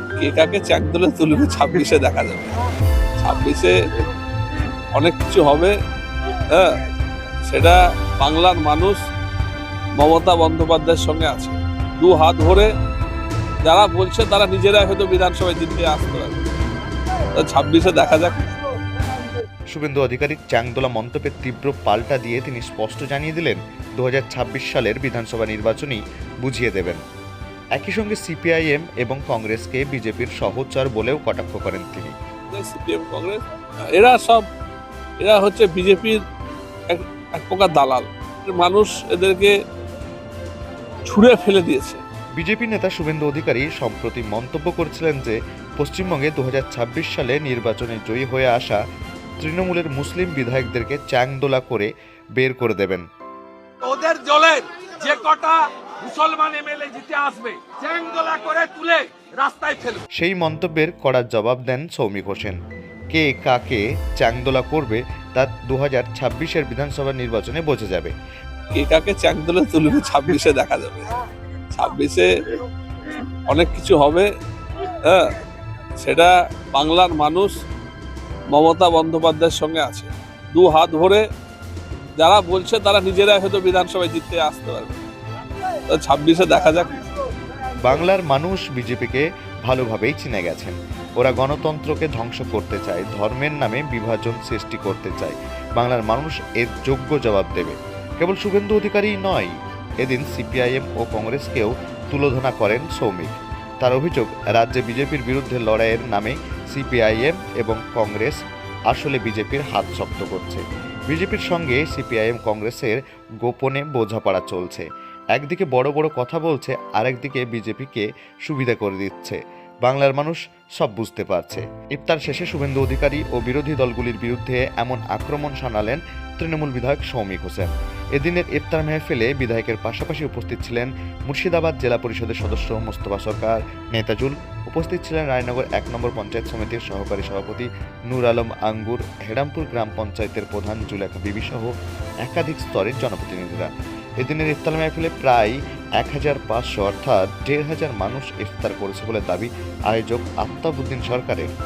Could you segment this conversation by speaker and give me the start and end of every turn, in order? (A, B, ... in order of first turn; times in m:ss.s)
0:00.2-0:02.6 A
0:03.2-0:03.7 A
0:05.0-0:05.7 A
0:07.5-0:09.0 A
0:10.0-0:12.7 A
0:13.6-0:16.4 A
0:17.4-0:18.4 A
0:19.7-0:27.0 B
0:27.8-0:32.1 B
0:32.5-0:33.4 A
0:34.0-0:34.4 A
0:35.2-0:36.2 A
0:36.9-0:39.5 A
0:41.1-0:42.0 A
0:42.4-0:48.8 B
0:49.4-0:53.0 B
0:53.8-1:00.0 C
1:00.2-1:02.6 B
1:03.1-1:08.1 B
1:08.7-1:11.1 A
1:11.7-1:12.3 A
1:13.5-1:14.3 A
1:16.0-1:17.5 A
1:18.5-1:21.2 A
1:22.2-1:25.0 A
1:25.9-1:27.0 A
1:27.8-1:48.4 B
1:48.9-2:21.7 B
2:22.2-2:31.5 B